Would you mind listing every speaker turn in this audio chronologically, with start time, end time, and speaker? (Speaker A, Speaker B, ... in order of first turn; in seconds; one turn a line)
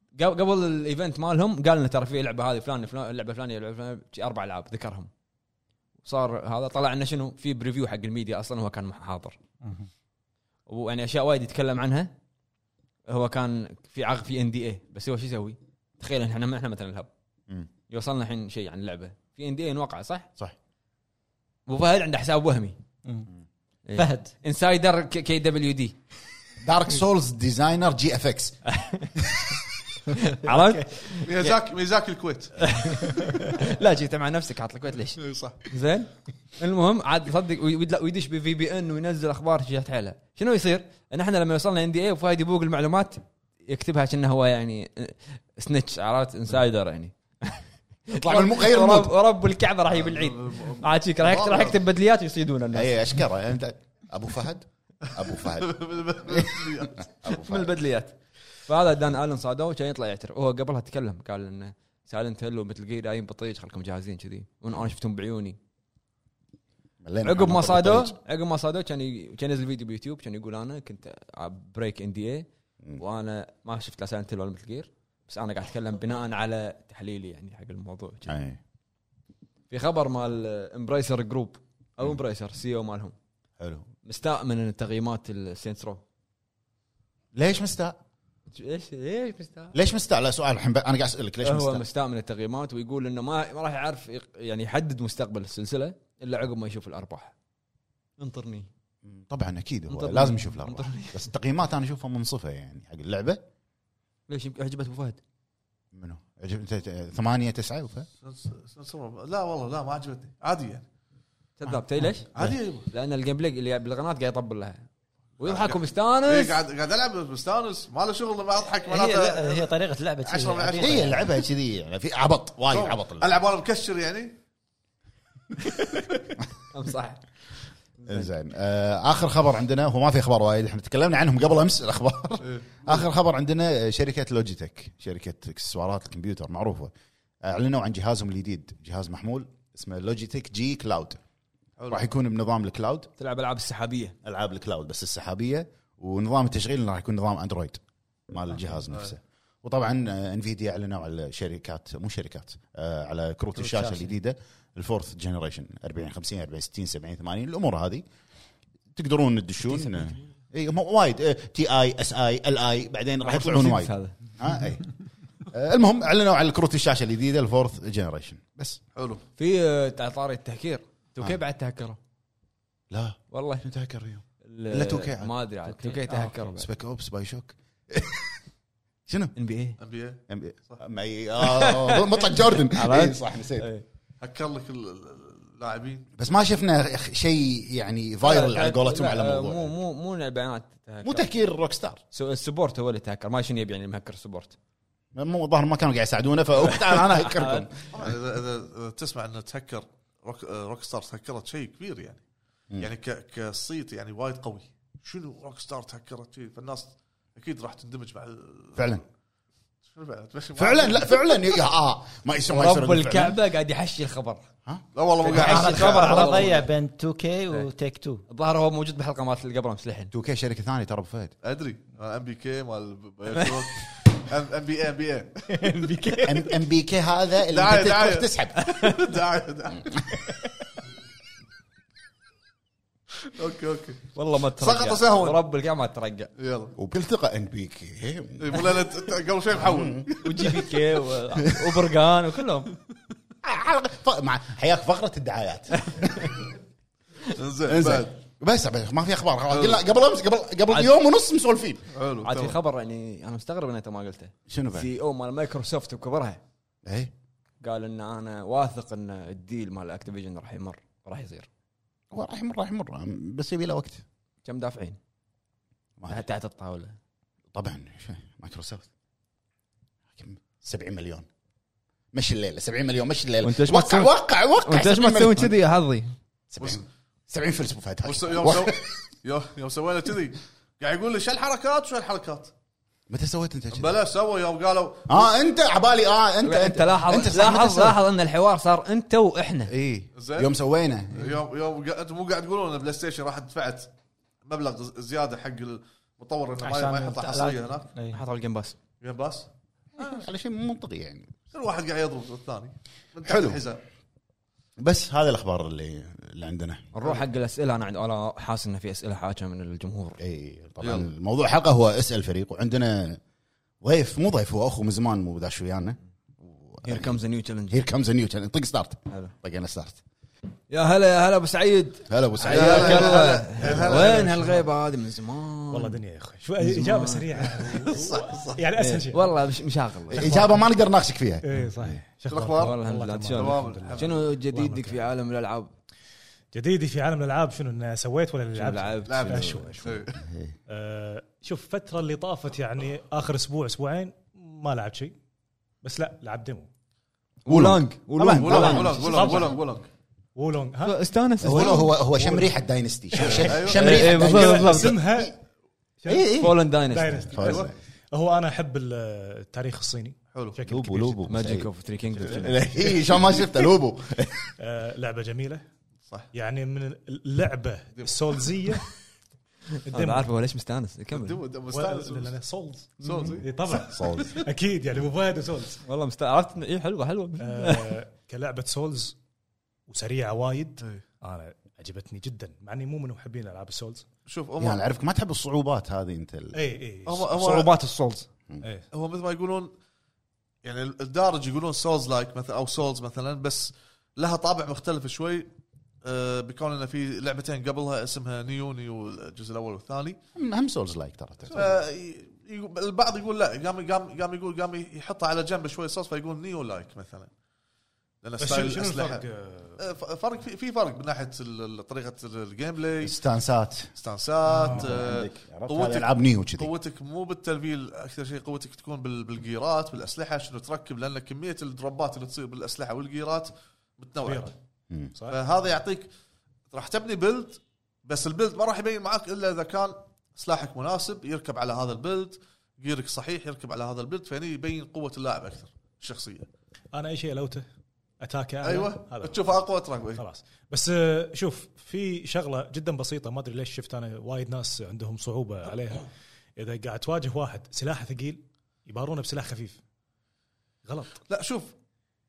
Speaker A: 0.2-5.1
Speaker A: 6.0-9.4
Speaker B: 9.6-9.9
Speaker A: 10.7-12.1
Speaker A: 13.1-17.1
Speaker A: 17.9-20.3
Speaker A: 21.7-22.8
Speaker A: 23.9-25.9
Speaker B: 23.9-24.3
Speaker C: 26.6-28.6
Speaker A: 28.7-29.1
Speaker A: 30.1-31.6
Speaker B: 30.5-30.8
Speaker D: 31.2-33.1
Speaker A: 32.6-53.0
Speaker B: 33.0-33.5
Speaker D: 35.2-35.6
Speaker C: 48.1-49.1
Speaker D: 49.9-51.8
Speaker C: 52.7-57.7
Speaker D: 55.5-57.0
Speaker A: 57.2-65.6
Speaker C: 67.0-68.2
Speaker A: 67.2-72.5
Speaker A: 73.0-78.3
Speaker C: 78.2-78.6
Speaker A: 79.7-83.1
Speaker C: 83.6-83.9
Speaker A: 84.0-86.0
Speaker C: 87.3-88.0
Speaker A: 88.5-89.7
Speaker C: 89.7-91.8
Speaker A: 91.4-97.3
Speaker A: 98.2-98.7
Speaker C: 99.0-103.4
Speaker A: 99.9-101.2
Speaker A: 104.3-105.2
Speaker C: 105.9-108.1
Speaker D: 108.2-110.8
Speaker A: 111.6-114.8
Speaker D: 112.3-112.9
Speaker A: 115.4-116.6
Speaker D: 115.4-119.7
Speaker B: 118.8-121.3
Speaker D: 120.2-121.2
Speaker C: 120.8-123.4
Speaker D: 122.7-124.4
Speaker A: 126.7-127.2
Speaker A: 128.0-128.3
Speaker C: 128.1-136.9
Speaker D: 132.4-133.1
Speaker C: 137.4-141.2
Speaker D: 141.8-142.1
Speaker C: 141.9-143.1
Speaker A: 143.2-144.2
Speaker C: 144.2-147.8
Speaker C: 148.3-158.0
Speaker B: 153.6-154.1
Speaker C: 158.9-164.8
Speaker A: 159.7-160.2
Speaker A: 163.2-164.2
Speaker C: 165.4-168.8
Speaker D: 168.9-169.2
Speaker A: 169.4-172.0
Speaker C: 172.9-175.3
Speaker A: 173.3-173.6
Speaker A: 174.4-176.7
Speaker B: 175.7-176.6
Speaker C: 176.5-178.4
Speaker C: 179.1-179.3
Speaker A: 179.3-179.8
Speaker D: 179.8-180.8
Speaker C: 180.3-183.7
Speaker A: 181.5-183.8
Speaker D: 184.2-186.1
Speaker C: 186.2-189.7
Speaker A: 188.2-191.3
Speaker C: 191.0-192.0
Speaker A: 192.1-194.6
Speaker C: 195.1-197.7
Speaker A: 196.6-197.7
Speaker D: 197.9-202.2
Speaker D: 202.8-209.0
Speaker C: 208.8-209.0
Speaker D: 209.9-211.4
Speaker C: 210.6-213.4
Speaker A: 212.5-214.4
Speaker D: 214.9-216.6
Speaker A: 215.2-216.6
Speaker B: 215.2-218.2
Speaker A: 218.3-220.1
Speaker C: 220.1-221.3
Speaker D: 221.4-225.6
Speaker B: 225.5-226.4
Speaker C: 226.2-228.6
Speaker D: 227.5-230.0
Speaker D: 233.2-235.4
Speaker A: 234.1-236.3
Speaker D: 236.4-236.7
Speaker C: 236.8-238.8
Speaker D: 238.4-240.1
Speaker C: 239.6-240.7
Speaker A: 240.2-242.7
Speaker C: 241.4-241.8
Speaker C: 243.4-246.4
Speaker A: 245.9-246.2
Speaker D: 247.3-248.1
Speaker C: 247.6-251.8
Speaker D: 249.5-249.8
Speaker D: 251.9-252.6
Speaker A: 252.2-256.4
Speaker C: 254.5-254.9
Speaker C: 256.8-257.1
Speaker A: 257.6-261.5
Speaker C: 262.1-264.0
Speaker A: 264.4-265.0
Speaker A: 266.1-266.9
Speaker C: 267.5-268.9
Speaker C: 270.1-271.3
Speaker C: 272.1-275.5
Speaker A: 273.4-274.1
Speaker A: 274.6-276.1
Speaker C: 276.5-278.9
Speaker D: 276.6-276.9
Speaker D: 278.0-282.5
Speaker C: 283.1-283.9
Speaker D: 283.7-285.3
Speaker C: 285.1-288.0
Speaker A: 286.4-289.7
Speaker C: 289.7-291.4
Speaker D: 290.2-290.5
Speaker D: 291.1-293.9
Speaker D: 294.4-297.9
Speaker B: 296.6-298.2
Speaker A: 298.1-298.8
Speaker D: 299.0-300.2
Speaker C: 300.0-301.4
Speaker D: 301.5-303.8
Speaker C: 303.2-303.6
Speaker C: 304.8-306.9
Speaker A: 306.9-310.2
Speaker C: 310.2-313.2
Speaker D: 310.8-311.1
Speaker C: 313.8-317.1
Speaker A: 316.8-317.8
Speaker C: 317.7-320.0
Speaker A: 320.7-326.0
Speaker C: 322.1-323.4
Speaker D: 322.4-324.6
Speaker E: 325.7-329.3
Speaker A: 326.6-327.3
Speaker D: 327.5-328.6
Speaker A: 328.7-330.4
Speaker E: 330.1-330.6
Speaker C: 330.1-331.4
Speaker E: 331.4-335.0
Speaker D: 332.3-332.8
Speaker A: 332.6-335.7
Speaker D: 333.3-334.1
Speaker E: 336.5-340.0
Speaker A: 338.5-339.8
Speaker D: 339.1-340.1
Speaker C: 340.2-340.5
Speaker E: 340.7-345.1
Speaker E: 345.8-346.7
Speaker A: 347.4-349.5
Speaker C: 347.5-349.1
Speaker D: 348.3-349.9
Speaker E: 349.0-349.6
Speaker E: 350.4-352.5
Speaker A: 350.8-351.9
Speaker C: 351.4-355.3
Speaker E: 353.1-355.3
Speaker D: 353.2-353.9
Speaker A: 353.4-355.0
Speaker E: 356.0-356.3
Speaker C: 356.1-356.5
Speaker A: 356.3-357.3
Speaker E: 356.9-361.2
Speaker C: 357.3-357.7
Speaker D: 357.4-357.7
Speaker D: 360.3-360.6
Speaker C: 360.6-364.5
Speaker A: 361.3-362.6
Speaker E: 364.6-365.6
Speaker E: 366.3-368.9
Speaker D: 368.0-368.3
Speaker E: 369.9-370.3
Speaker A: 369.9-371.4
Speaker D: 371.1-372.3
Speaker E: 371.7-375.8
Speaker A: 373.0-373.3
Speaker D: 373.0-373.5
Speaker C: 373.7-374.4
Speaker A: 375.8-377.9
Speaker E: 377.4-379.2
Speaker E: 379.9-384.0
Speaker D: 384.2-384.8
Speaker C: 384.6-386.6
Speaker E: 386.5-387.3
Speaker D: 387.1-387.7
Speaker A: 387.3-388.3
Speaker E: 388.6-388.9
Speaker D: 388.9-389.7
Speaker D: 390.6-395.5
Speaker D: 396.0-400.2
Speaker C: 400.3-401.7
Speaker D: 401.5-407.3
Speaker D: 408.2-409.2
Speaker E: 408.4-409.8
Speaker D: 409.8-413.1
Speaker C: 413.0-413.9
Speaker D: 413.9-424.5
Speaker E: 414.5-414.9
Speaker C: 414.6-416.7
Speaker E: 424.2-424.5
Speaker D: 425.3-426.1
Speaker D: 426.7-436.5
Speaker E: 436.9-437.6
Speaker E: 438.2-439.5
Speaker D: 438.6-440.2
Speaker E: 440.2-449.8
Speaker E: 450.8-451.2
Speaker D: 451.3-451.7